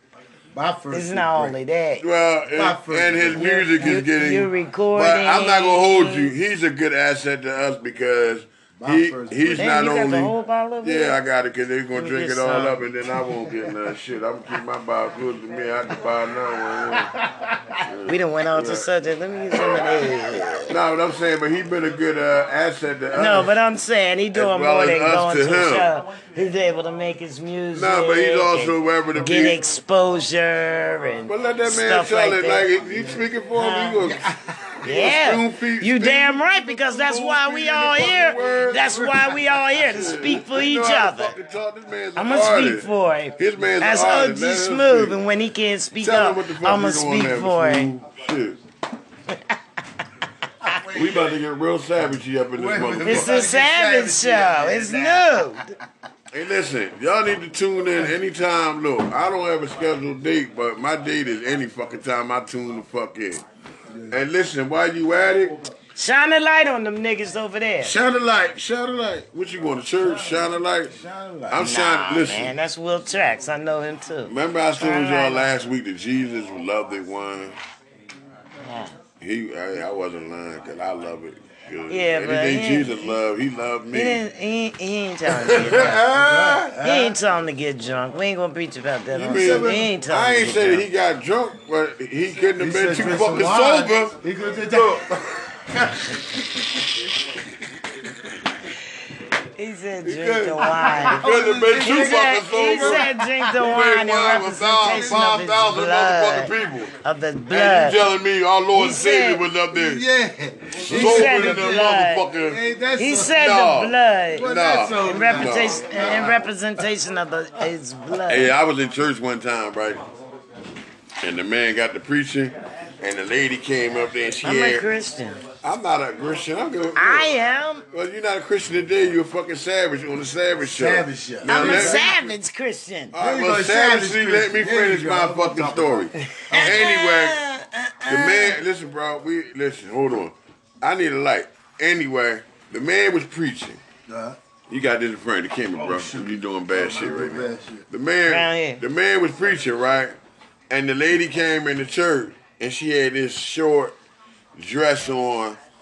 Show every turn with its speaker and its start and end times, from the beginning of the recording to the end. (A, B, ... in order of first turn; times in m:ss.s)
0:00.5-0:01.6 A
0:00.9-0:02.0 B
0:02.0-0:17.1 C
0:02.5-0:04.1 A
0:03.4-0:06.3 B
0:08.8-0:09.8 A
0:09.6-0:11.2 B
0:12.0-0:12.8 B
0:16.9-0:17.6 A
0:17.8-0:18.9 C
0:18.1-0:20.8 B
0:19.5-0:23.6 C
0:23.1-0:32.7 B
0:24.3-0:25.9 C
0:27.7-0:29.6 C
0:31.3-0:34.2 C
0:32.8-0:33.3 A
0:33.6-0:34.0 B
0:34.0-0:34.8 A
0:34.8-0:39.1 C
0:34.8-0:41.3 B
0:38.1-0:39.6 A
0:39.8-0:45.2 C
0:42.2-0:47.9 B
0:46.0-0:48.6 C
0:50.7-0:51.3 A
0:50.9-0:53.4 C
0:52.6-0:55.6 A
0:53.0-0:55.6 B
0:56.3-1:03.4 C
1:03.9-1:04.2 A
1:04.1-1:05.6 C
1:06.0-1:07.9 B
1:07.8-1:10.9 C
1:10.0-1:11.6 A
1:11.5-1:12.6 C
1:11.5-1:15.5 B
1:14.2-1:17.6 C
1:18.6-1:18.9 B
1:19.2-1:24.2 C
1:21.9-1:23.2 B
1:23.9-1:25.9 B
1:25.4-1:26.8 C
1:25.5-1:27.2 A
1:26.8-1:30.8 B
1:29.1-1:34.2 C
1:29.3-1:29.8 A
1:32.6-1:35.1 A
1:34.7-1:35.2 C
1:35.8-1:36.6 A
1:39.6-1:46.5 B
1:40.1-1:43.0 C
1:40.6-1:43.5 A
1:43.6-1:46.9 C
1:44.8-1:45.5 A
1:47.0-1:48.0 B
1:47.5-1:50.0 C
1:48.7-1:49.4 B
1:49.7-1:53.6 A
1:50.8-1:52.6 C
1:50.9-1:52.3 B
1:53.0-1:54.5 B
1:53.3-1:56.5 C
1:54.3-1:56.5 A
1:55.0-1:58.5 B
1:58.3-2:00.0 C
2:01.2-2:04.9 C
2:04.4-2:05.4 B
2:05.6-2:07.3 C
2:06.9-2:07.8 B
2:07.9-2:12.3 C
2:10.6-2:12.1 A
2:11.4-2:13.1 B
2:13.1-2:17.4 C
2:13.1-2:17.0 A
2:16.2-2:18.6 B
2:18.1-2:23.8 C
2:24.1-2:24.4 A
2:24.7-2:30.2 C
2:25.8-2:27.8 A
2:28.3-2:28.8 B
2:30.7-2:34.0 C
2:34.6-2:35.6 C